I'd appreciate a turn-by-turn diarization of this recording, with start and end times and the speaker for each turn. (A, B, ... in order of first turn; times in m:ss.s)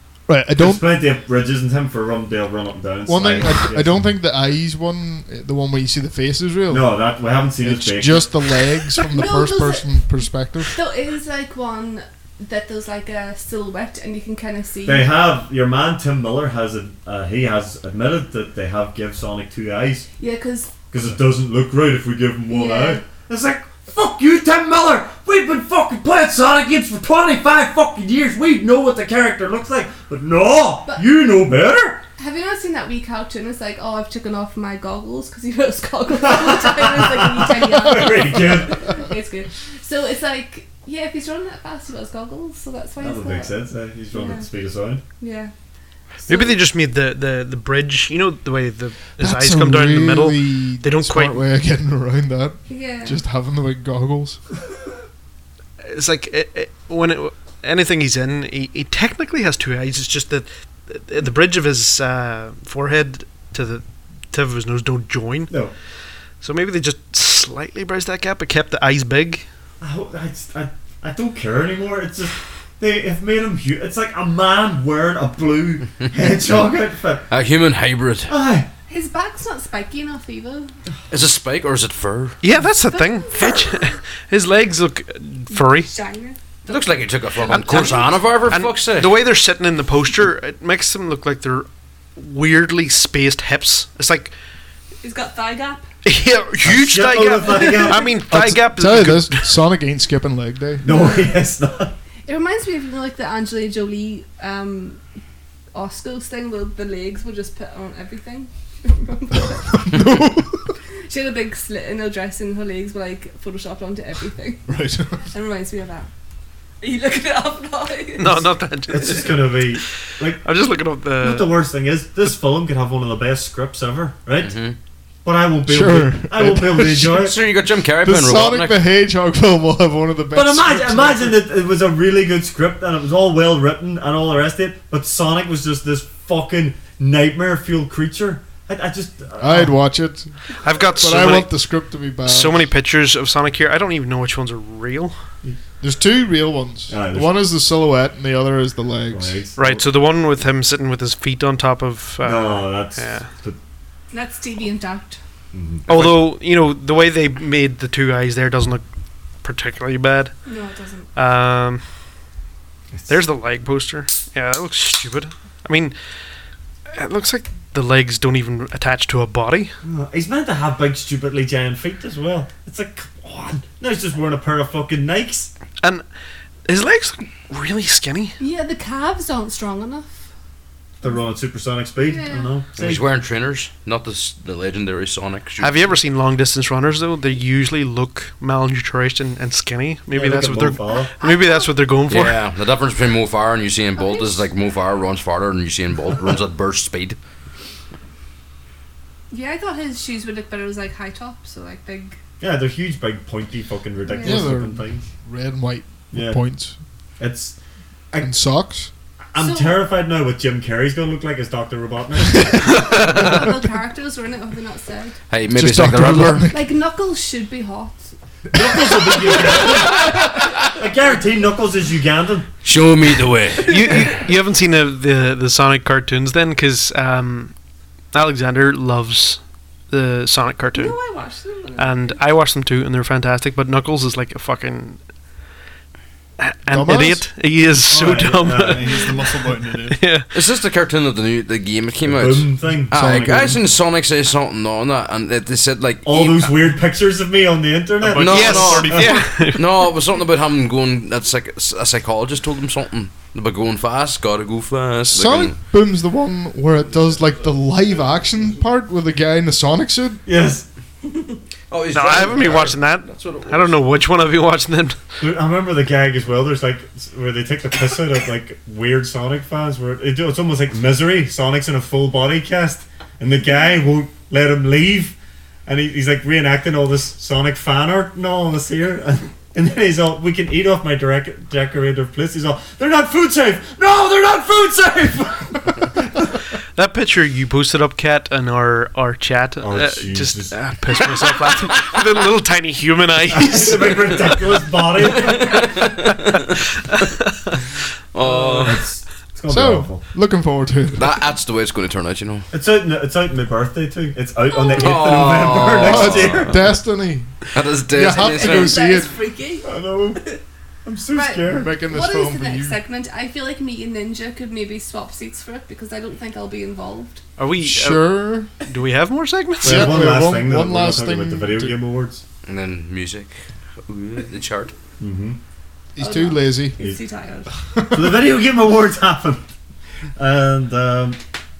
0:00.3-0:00.9 A
0:00.6-0:04.1 B
0:03.1-0:07.0 A
0:06.7-0:08.5 B
0:07.6-0:10.8 A
0:09.1-0:10.0 C
0:10.6-0:15.1 C
0:14.8-0:20.1 B
0:20.2-0:20.7 C
0:20.9-0:32.0 B
0:22.5-0:23.0 C
0:32.2-0:43.6 C
0:36.1-0:38.9 B
0:43.0-0:45.0 B
0:44.1-0:44.5 C
0:45.2-0:45.5 C
0:46.2-0:46.6 C
0:46.3-0:51.4 D
0:49.2-0:54.4 A
0:52.7-0:53.2 C
0:55.8-1:05.5 D
1:06.4-1:09.4 D
1:09.8-1:17.3 B
1:17.3-1:18.3 E
1:18.3-1:18.7 B
1:18.9-1:20.7 C
1:21.1-1:22.4 E
1:22.4-1:25.9 D
1:22.9-1:24.0 C
1:25.5-1:28.1 C
1:26.6-1:29.2 E
1:27.5-1:34.3 D
1:35.0-1:35.9 C
1:36.0-1:39.6 D
1:36.6-1:38.2 B
1:37.5-1:38.1 C
1:38.3-1:40.8 A
1:40.8-1:41.9 B
1:40.8-1:41.4 C
1:42.2-1:45.0 C
1:45.7-1:50.0 C
1:49.8-1:50.7 A
1:51.0-1:56.1 C
1:54.7-1:55.3 A
1:56.8-1:58.5 C
1:58.2-1:59.8 D
1:58.9-2:00.4 B
2:00.4-2:01.5 D
2:01.2-2:04.5 B
2:04.4-2:04.8 E
2:05.2-2:07.4 B
2:05.7-2:07.3 A
2:07.1-2:08.8 E
2:08.0-2:11.4 A
2:10.3-2:19.8 B
2:19.4-2:22.6 A
2:20.6-2:21.6 D
2:22.2-2:25.1 D
2:25.8-2:29.4 A
2:26.9-2:27.4 B
2:29.1-2:29.8 B
2:29.6-2:33.3 D
2:32.2-2:33.6 B
2:34.1-2:35.2 C
2:35.5-2:36.2 B
2:35.9-2:38.8 D
2:39.4-2:40.4 D
2:40.4-2:41.1 C
2:41.1-2:41.8 D
2:43.1-2:45.9 D
2:46.9-2:49.7 D
2:49.8-2:55.5 B
2:56.7-2:58.4 D
2:58.4-3:00.3 C
3:01.0-3:03.0 B
3:02.0-3:02.5 C
3:02.7-3:06.0 E
3:05.6-3:12.4 D
3:10.1-3:11.1 B
3:11.2-3:11.7 C
3:12.1-3:17.2 E
3:13.9-3:14.5 C
3:19.3-3:22.2 C
3:22.4-3:25.1 B
3:24.0-3:24.5 C
3:24.2-3:26.8 A
3:26.1-3:26.4 B
3:27.2-3:27.6 B
3:28.2-3:28.9 A
3:29.3-3:32.7 B
3:29.4-3:29.8 C
3:32.7-3:35.2 C
3:32.9-3:33.5 E
3:35.3-3:36.5 E
3:35.5-3:36.6 A
3:36.5-3:38.1 C
3:38.5-3:42.5 B
3:42.6-3:44.0 E
3:43.6-3:47.5 D
3:48.1-3:51.0 D
3:50.7-3:52.2 C
3:51.8-3:55.0 D
3:56.4-3:59.1 D
3:56.7-3:57.2 A
3:57.9-3:58.9 B
3:58.0-4:00.1 F
3:59.9-4:00.3 D
4:00.3-4:06.6 E
4:02.0-4:03.6 B
4:02.9-4:03.6 A
4:06.0-4:09.1 B
4:08.0-4:09.5 F
4:08.1-4:15.6 E
4:08.3-4:09.7 D
4:15.1-4:20.2 A
4:20.2-4:20.6 B
4:21.7-4:23.8 E
4:21.9-4:25.0 D
4:25.2-4:46.1 B
4:46.7-4:54.4 D
4:49.6-4:50.6 B
4:53.3-4:55.7 B
4:55.2-4:56.4 E
4:56.3-4:57.6 D
4:58.1-4:58.8 E
4:58.3-4:58.8 D
4:58.6-5:00.0 B
4:59.5-5:01.2 A
5:01.0-5:02.5 E
5:02.5-5:06.5 B
5:04.5-5:05.2 C
5:04.8-5:06.6 E
5:05.8-5:09.2 A
5:07.5-5:08.8 E
5:08.1-5:10.4 C
5:09.6-5:10.3 B
5:10.8-5:11.7 B
5:11.1-5:17.2 C
5:11.5-5:12.8 A
5:17.4-5:20.0 D
5:17.6-5:18.5 A
5:19.6-5:22.2 B
5:19.6-5:21.8 A
5:22.4-5:24.7 E
5:25.0-5:25.4 B
5:26.0-5:26.8 A
5:26.0-5:27.5 C
5:27.7-5:28.2 A
5:27.9-5:29.4 B
5:30.2-5:31.2 B